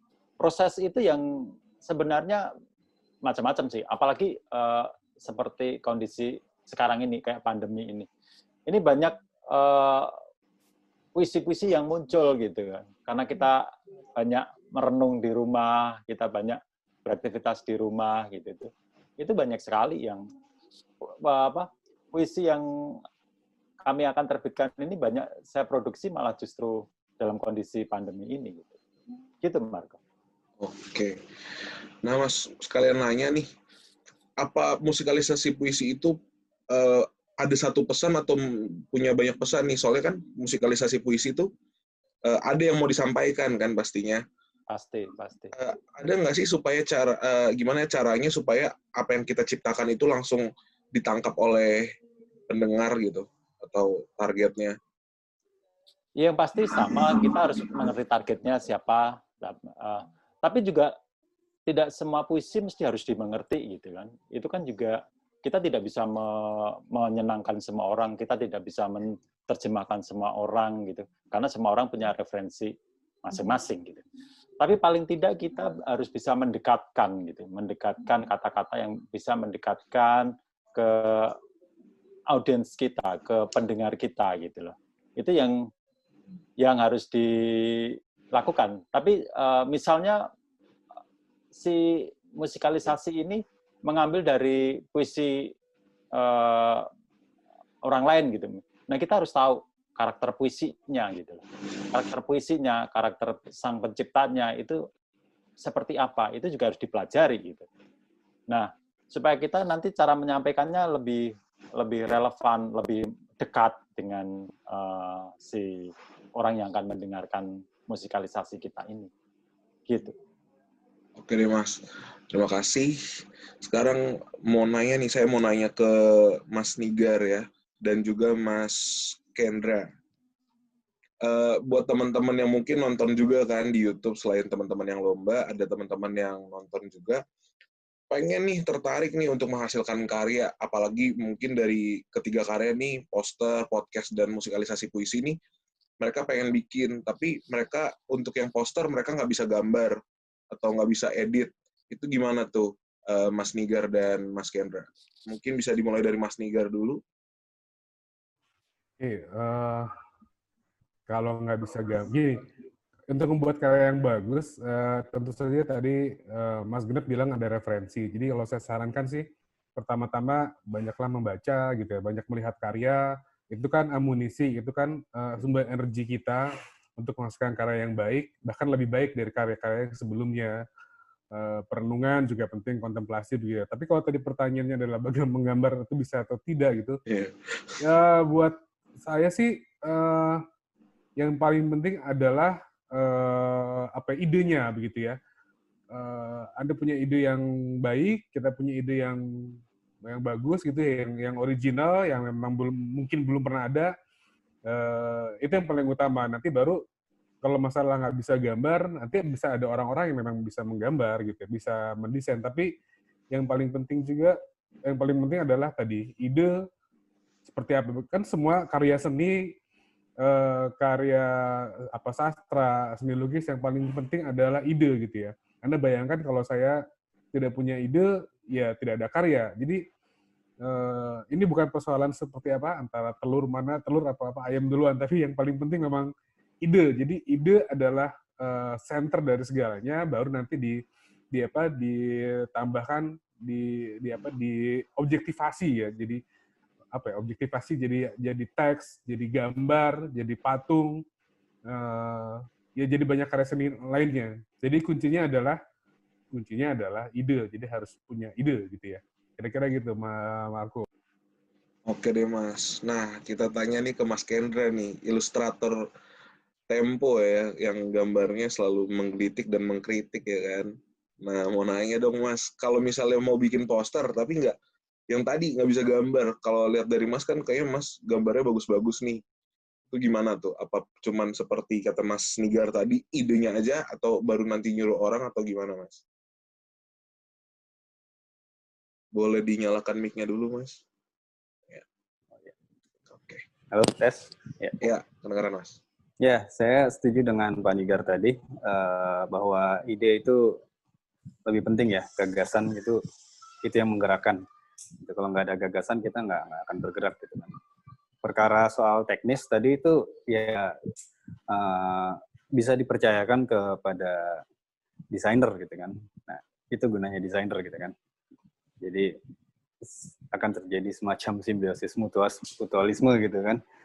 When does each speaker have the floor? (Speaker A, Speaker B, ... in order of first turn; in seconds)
Speaker A: 0.4-2.4, 3.2-8.1, 8.7-10.1, 11.2-13.7, 14.2-20.3, 21.0-22.7, 23.8-28.8, 29.4-30.0, 44.7-45.5, 56.2-60.9, 61.7-74.0, 74.6-81.4, 82.3-85.6, 86.6-90.2, 91.5-95.5, 96.1-96.9, 97.8-104.8, 105.6-107.7, 108.5-111.3, 111.8-119.1, 119.9-120.2
Speaker B: 30.6-31.2, 32.0-33.5, 34.4-36.2, 36.7-41.5, 42.3-44.2, 45.5-51.9, 52.5-54.8, 121.2-123.0, 123.6-129.9, 131.2-137.2, 138.1-145.4, 146.0-150.0, 150.5-157.0, 187.1-187.8, 261.9-265.8, 266.7-274.6, 275.1-279.2, 279.9-286.0, 289.1-290.8, 293.1-293.4, 294.8-295.8
Speaker C: 159.0-159.9, 161.1-162.5, 163.1-169.2, 169.8-173.0, 173.5-176.4, 177.0-180.5, 181.3-187.0, 187.8-190.4, 191.2-195.2, 195.9-199.2, 200.1-203.9, 204.7-206.8, 207.4-212.7, 213.3-214.4, 214.9-216.5, 217.5-219.5, 220.2-226.8, 227.3-229.8, 230.7-236.1, 236.7-240.8, 241.3-242.0, 242.5-246.2, 246.9-251.0, 251.7-255.6, 256.4-260.9
Speaker D: 293.7-294.8, 296.2-300.6, 301.5-303.0, 303.6-304.4, 305.0-307.6, 308.2-310.7, 311.5-314.4, 315.1-317.9, 318.8-319.1, 319.8-323.6